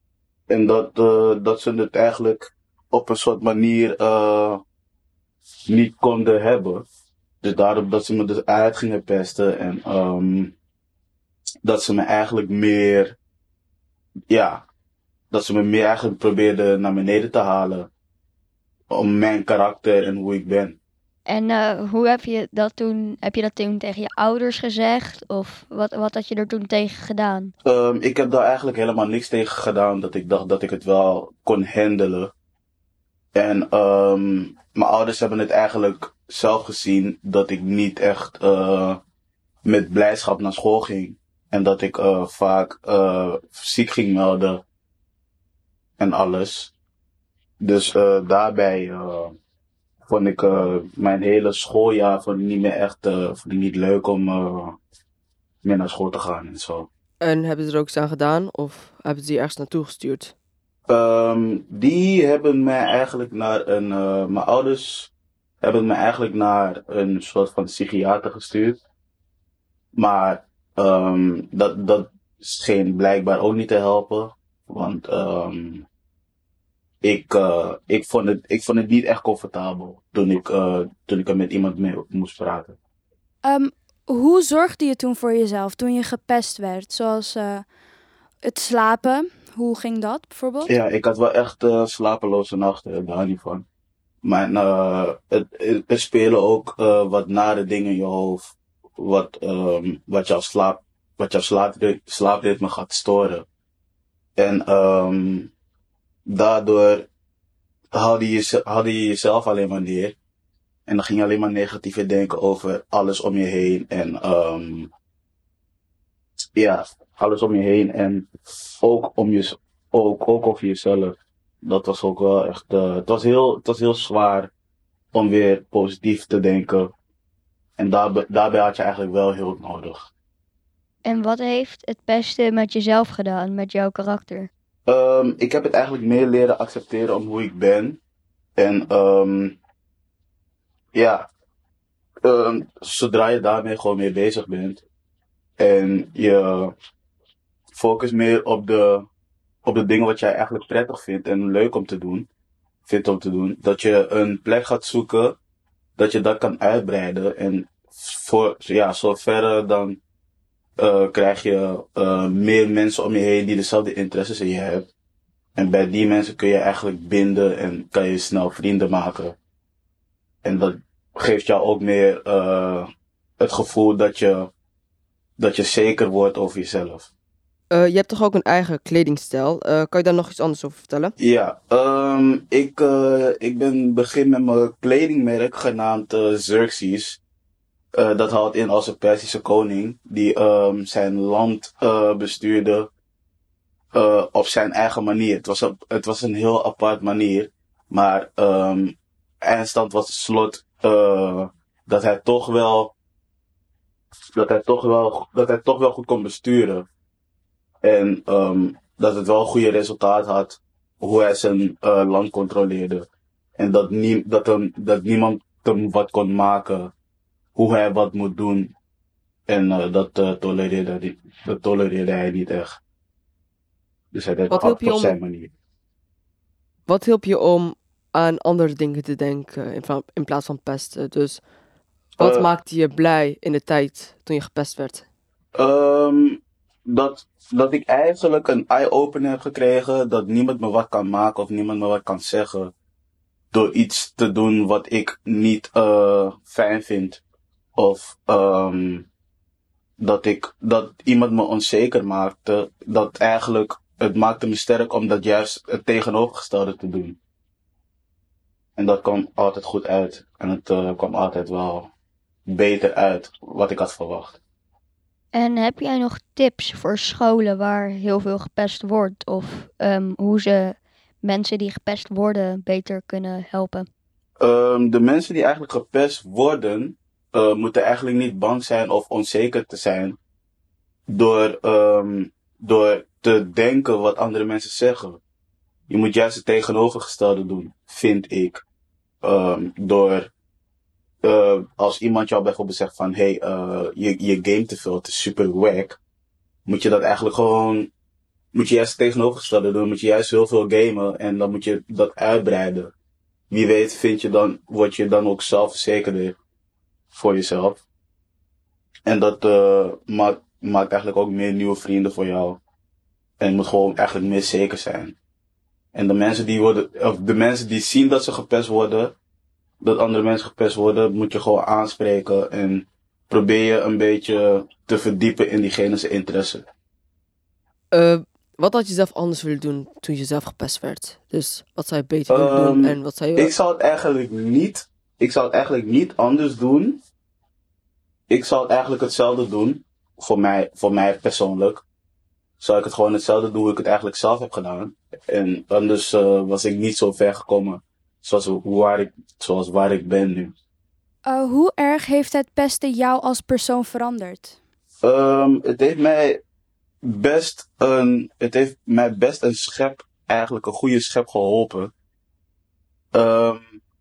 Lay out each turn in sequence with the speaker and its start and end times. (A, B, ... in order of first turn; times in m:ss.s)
0:00.5-0:04.6 A
0:05.7-0:06.9 A
0:07.4-0:10.6 A
0:11.6-0:13.2 A
0:14.3-0:14.6 A
0:15.3-0:17.9 A
0:18.9-0:20.8 A
0:21.3-0:27.5 B
0:27.6-0:32.3 A
0:33.4-0:39.0 A
0:39.6-0:44.6 A
0:46.0-0:46.7 A
0:47.6-0:49.4 A
0:50.1-0:54.8 A
0:55.6-0:56.9 A
0:57.2-1:00.3 C
1:00.9-1:05.1 A
1:05.6-1:08.8 A
1:10.0-1:15.9 A
1:17.0-1:22.8 A
1:23.4-1:27.7 D
1:28.4-1:30.7 D
1:30.7-1:33.7 A
1:34.2-1:43.5 A
1:44.4-1:45.5 A
1:46.3-1:47.1 A
1:47.9-1:50.2 A
1:50.9-1:54.9 A
1:56.6-1:58.3 A
1:58.8-2:04.5 A
2:05.1-2:06.9 A
2:07.8-2:10.1 A
2:11.1-2:14.5 B
2:14.9-2:18.0 A
2:18.6-2:19.6 A
2:21.0-2:21.3 A
2:22.2-2:24.8 A
2:25.6-2:26.7 A
2:27.7-2:29.1 A
2:29.6-2:32.3 A
2:32.9-2:35.4 A
2:36.0-2:40.0 A
2:40.8-2:44.9 A
2:45.6-2:49.4 A
2:50.4-2:52.9 A
2:53.4-2:54.5 A
2:55.4-2:57.1 A
2:57.7-3:01.1 C
3:01.2-3:07.2 A
3:08.0-3:12.9 A
3:13.9-3:22.9 A
3:24.4-3:26.9 A
3:27.8-3:36.9 A
3:37.6-3:38.7 A
3:39.5-3:42.8 A
3:44.1-3:45.5 A
3:44.5-3:45.2 C
3:46.9-3:51.4 C
3:52.2-3:55.0 C
3:52.2-3:52.5 A
3:55.6-4:02.7 A
4:03.5-4:07.2 A
4:07.8-4:09.1 A
4:10.0-4:17.2 A
4:18.8-4:21.9 A
4:22.5-4:24.4 A
4:25.3-4:33.9 B
4:34.4-4:40.2 A
4:41.1-4:45.2 A
4:45.9-4:48.6 A
4:49.2-4:50.3 A
4:51.2-4:56.0 A
4:56.7-4:57.9 A
4:58.5-5:02.9 A
5:03.5-5:06.4 A
5:07.1-5:07.8 A
5:09.1-5:12.6 A
5:13.4-5:15.2 A
5:15.9-5:19.2 A
5:19.8-5:26.7 A
5:27.9-5:33.5 C
5:32.3-5:37.0 A
5:38.3-5:41.8 A
5:42.6-5:50.5 A
5:51.2-5:54.6 D
5:55.0-5:56.4 A
5:57.0-6:01.9 A
6:03.1-6:03.8 A